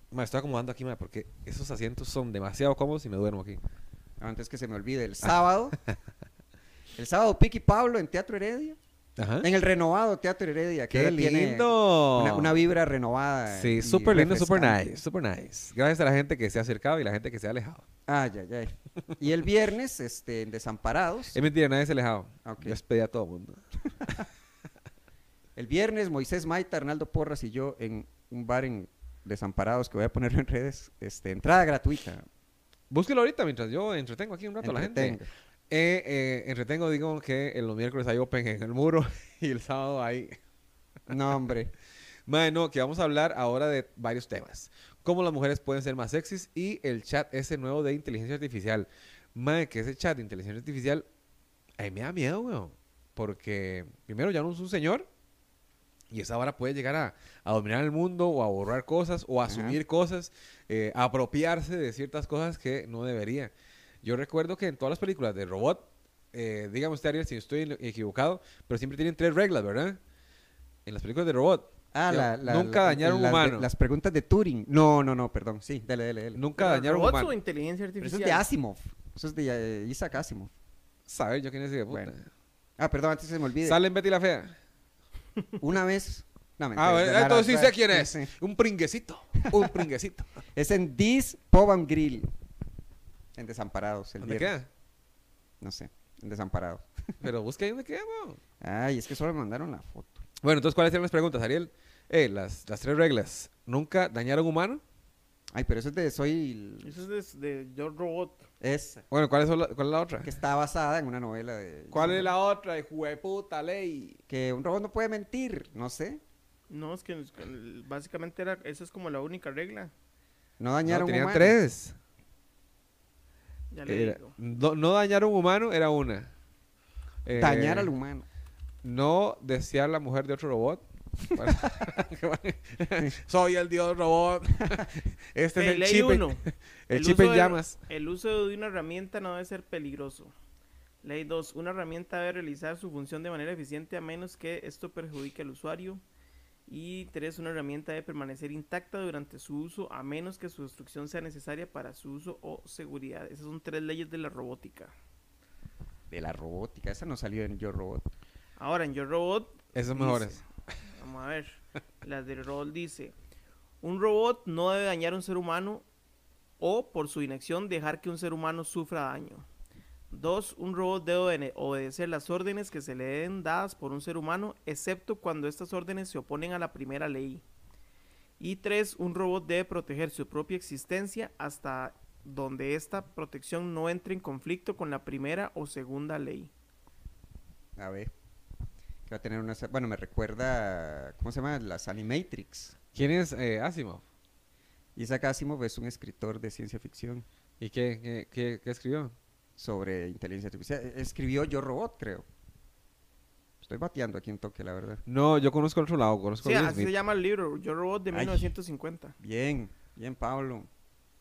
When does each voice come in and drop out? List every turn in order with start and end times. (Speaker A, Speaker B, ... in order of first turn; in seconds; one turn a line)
Speaker A: 0.1-3.6
Speaker B: 4.2-5.8
Speaker B: 7.0-8.8
Speaker A: 9.2-9.5
Speaker B: 9.4-14.8
Speaker A: 10.9-12.6
Speaker A: 13.5-17.8
Speaker B: 18.1-21.4
Speaker A: 21.3-24.2
Speaker B: 22.4-22.8
Speaker B: 25.6-32.2
Speaker A: 32.9-35.2
Speaker B: 34.6-35.3
Speaker A: 35.7-40.4
Speaker B: 41.1-41.7
Speaker A: 42.3-51.0
Speaker A: 51.8-55.1
Speaker A: 56.1-63.5
Speaker B: 59.5-59.8
Speaker A: 64.0-70.0
Speaker A: 70.8-73.7
Speaker B: 71.9-76.4
Speaker A: 76.3-77.3
Speaker C: 76.6-78.4
Speaker B: 78.0-80.5
Speaker A: 81.1-82.3
Speaker B: 82.8-83.8
Speaker A: 83.6-84.5
Speaker B: 85.6-88.3
Speaker A: 86.8-90.3
Speaker B: 90.5-92.3
Speaker B: 93.3-94.5
Speaker A: 94.2-94.7
Speaker B: 95.6-96.8
Speaker A: 97.2-98.4
Speaker B: 98.6-100.2
Speaker A: 100.4-104.8
Speaker B: 105.5-107.0
Speaker C: 106.8-108.4
Speaker B: 108.6-109.0
Speaker A: 109.1-110.3
Speaker B: 110.2-112.2
Speaker A: 111.9-114.2
Speaker B: 114.3-116.2
Speaker C: 116.7-119.9
Speaker B: 120.6-121.6
Speaker A: 120.8-122.0
Speaker C: 123.7-124.3
Speaker A: 123.9-126.3
Speaker A: 127.2-127.9
Speaker B: 127.3-128.2
Speaker A: 128.8-137.8
Speaker C: 135.6-140.3
Speaker C: 141.0-146.0
Speaker C: 146.7-154.9
Speaker B: 156.1-158.0
Speaker C: 158.6-163.1
Speaker A: 159.7-160.4
Speaker C: 163.8-165.8
Speaker C: 166.6-169.4
Speaker C: 170.1-177.4
Speaker C: 178.4-186.5
Speaker B: 187.8-188.1
Speaker B: 189.1-192.7
Speaker A: 192.9-194.0
Speaker B: 194.9-197.2
Speaker A: 197.6-199.1
Speaker B: 199.6-202.2
Speaker B: 203.6-205.0
Speaker A: 205.1-206.9
Speaker C: 206.4-209.2
Speaker B: 208.1-208.5
Speaker B: 209.2-210.7